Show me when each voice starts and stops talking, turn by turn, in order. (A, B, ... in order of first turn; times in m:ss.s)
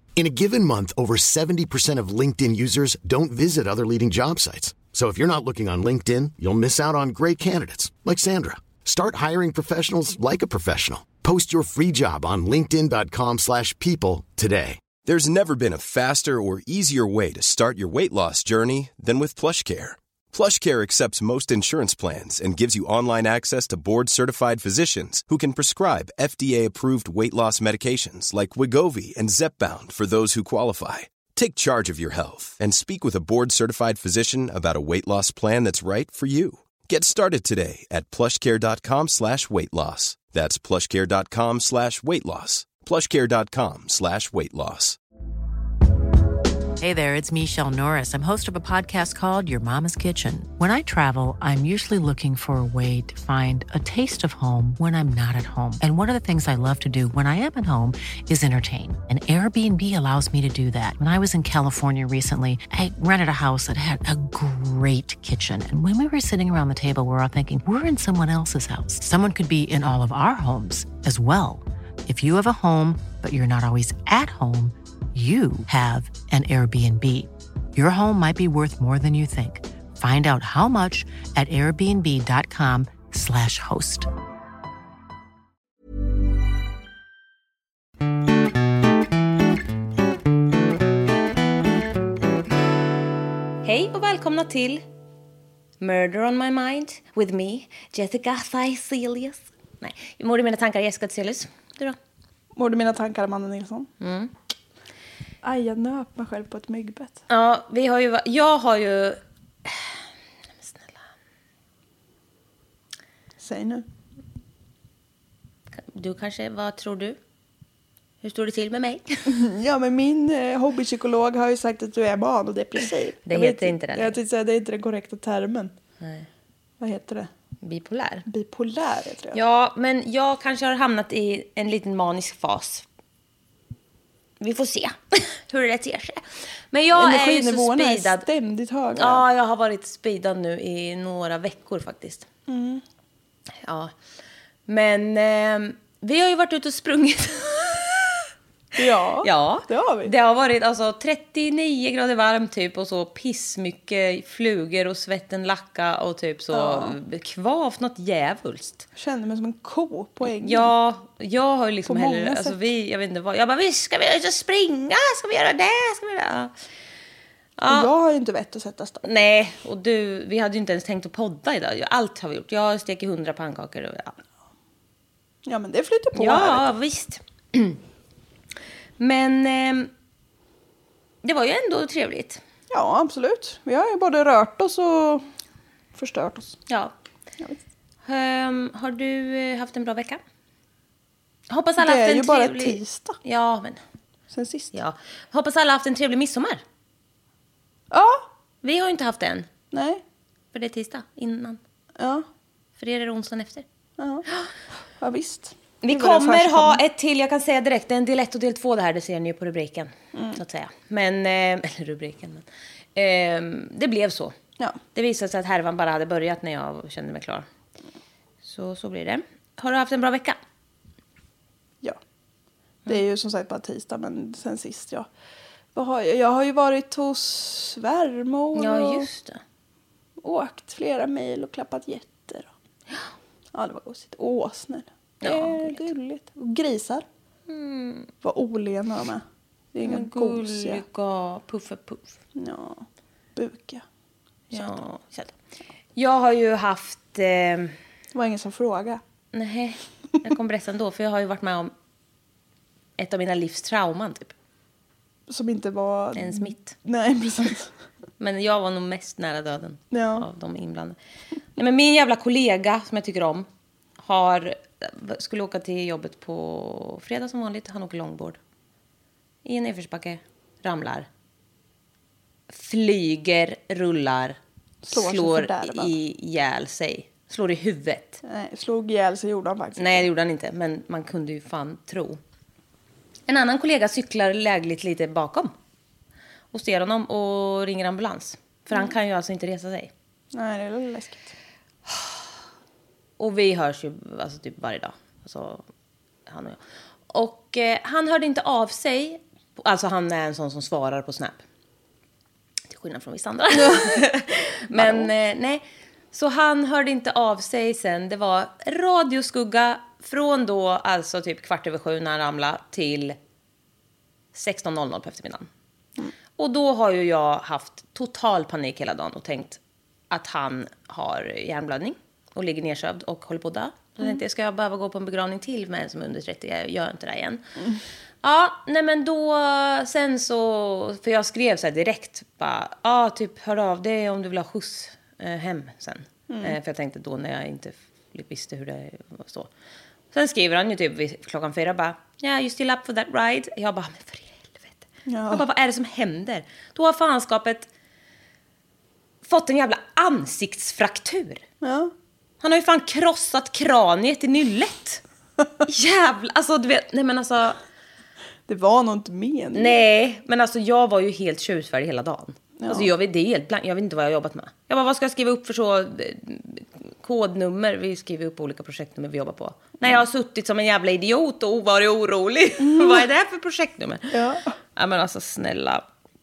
0:00.2-0:14.8 A
0:15.0-0:45.0 B
0:46.8-1:24.1 C
1:33.6-1:34.8 D
1:35.8-1:42.0 D
1:42.6-1:43.9 E
1:44.0-1:44.3 D
1:45.4-1:47.2 E
1:47.3-1:50.0 D
1:50.6-1:51.0 D
1:53.4-1:53.8 E
1:55.7-1:57.2 D
1:58.2-1:59.4 D
1:59.3-2:05.7 E
2:03.2-2:04.2 D
2:06.0-2:06.3 D
2:06.8-2:07.3 E
2:07.6-2:08.2 D
2:08.3-2:09.4 E
2:09.3-2:12.8 D
2:14.4-2:18.3 D
2:16.9-2:19.2 E
2:18.9-2:22.3 D
2:22.5-2:22.8 E
2:23.6-2:23.9 D
2:24.7-2:28.2 D
2:28.8-2:30.1 E
2:29.2-2:38.8 D
2:36.5-2:37.0 E
2:38.9-2:40.7 E
2:40.2-2:46.5 D
2:41.8-2:42.6 E
2:47.6-2:47.9 D
2:47.7-2:49.1 E
2:49.0-2:54.2 D
2:55.4-2:56.7 E
2:56.2-2:57.8 D
2:59.0-2:59.9 D
3:01.2-3:02.4 D
3:02.7-3:05.3 E
3:05.9-3:06.6 E
3:06.7-3:06.9 D
3:08.0-3:10.2 D
3:11.5-3:13.8 D
3:11.8-3:13.2 E
3:14.3-3:14.8 E
3:14.7-3:16.6 D
3:17.9-3:18.3 E
3:18.6-3:19.5 D
3:19.7-3:20.0 E
3:20.5-3:21.6 D
3:22.0-3:22.3 E
3:22.8-3:23.6 D
3:24.0-3:26.8 E
3:25.8-3:34.3 D
3:30.1-3:30.4 E
3:34.9-3:37.5 D
3:38.4-3:40.4 D
3:42.8-3:45.1 E
3:45.7-3:49.1 E
3:48.5-3:49.4 D
3:50.2-3:52.5 E
3:53.5-3:57.1 E
3:55.2-3:55.9 D
3:57.5-3:58.1 D
3:58.2-4:00.8 E
3:59.8-4:02.2 D
4:02.3-4:03.8 E
4:04.5-4:04.8 E
4:04.5-4:05.3 D
4:06.0-4:07.8 D
4:08.1-4:09.0 E
4:09.3-4:11.7 D
4:13.0-4:14.3 D
4:15.3-4:17.7 E
4:16.2-4:16.8 D
4:18.2-4:21.0 D
4:19.9-4:20.3 E
4:21.6-4:23.5 D
4:24.0-4:28.4 D
4:29.4-4:31.1 D
4:32.5-4:34.4 D
4:34.8-4:36.0 E
4:34.9-4:38.2 D
4:38.2-4:40.1 E
4:39.8-4:42.2 D
4:43.3-4:45.5 D
4:46.5-4:49.9 D
4:50.3-4:51.3 E
4:51.9-4:52.2 D
4:53.2-4:55.6 D
4:56.3-5:01.4 D
5:02.7-5:13.2 D
5:03.6-5:03.9 E
5:04.7-5:05.1 E
5:14.3-5:15.5 D
5:16.4-5:27.4 D
5:28.2-5:39.5 D
5:36.3-5:36.6 E
5:40.1-5:47.7 D
5:45.1-5:45.4 E
5:49.2-5:51.4 D
5:51.6-5:51.9 E
5:52.4-5:55.0 D
5:55.6-5:57.6 D
5:58.5-5:59.8 E
5:59.5-6:15.8 D
6:02.6-6:02.9 E
6:12.6-6:13.1 E
6:14.1-6:14.6 E